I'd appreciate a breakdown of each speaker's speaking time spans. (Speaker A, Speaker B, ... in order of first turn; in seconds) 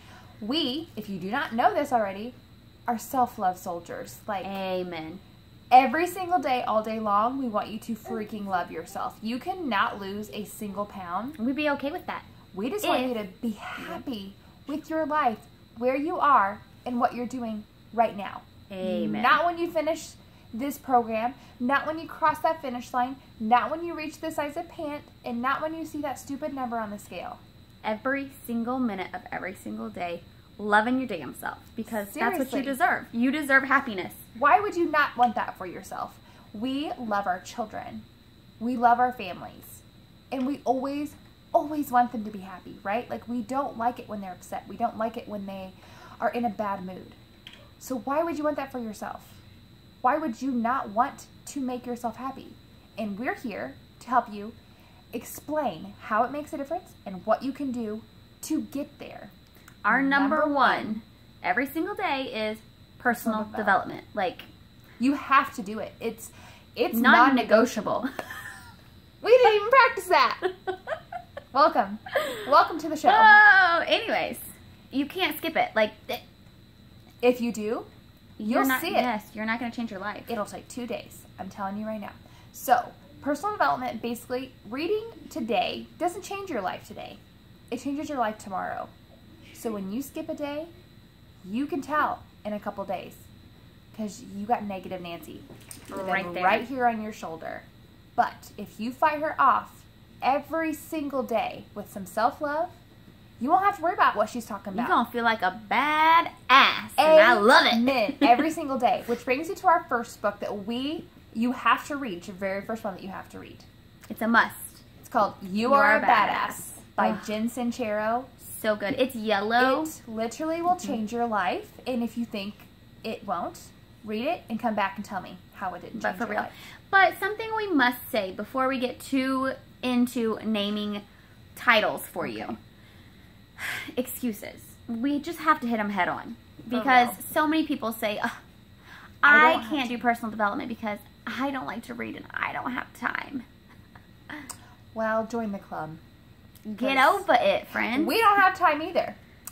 Speaker A: 0.4-2.3, 2.9-4.6, 5.7-11.4, 12.5-27.4, 31.9-32.8, 34.3-38.0, 38.6-47.2, 47.8-49.4, 50.0-54.5, 55.1-59.3, 59.9-61.0, 63.1-63.9, 65.0-68.1, 69.2-70.4, 71.5-73.4, 77.2-77.9, 78.4-79.1, 80.3-88.9, 89.5-90.7, 91.4-93.2, 93.9-102.8, 103.4-105.0, 107.0-113.7, 115.0-118.3, 119.6-126.5, 132.2-132.6, 136.7-137.2, 139.2-140.0, 144.9-146.0, 146.8-147.2, 147.9-149.2
Speaker B: 4.4-5.2, 11.4-12.2, 12.8-13.2, 13.8-14.0, 18.7-19.4, 27.8-34.2, 59.8-64.5, 66.9-68.1, 73.0-76.2, 78.4-80.3, 95.9-96.7, 104.7-108.4, 114.1-114.8, 115.6-117.3, 118.4-119.9, 125.9-131.0, 131.5-132.6, 133.6-138.4, 139.2-143.4, 146.6-148.1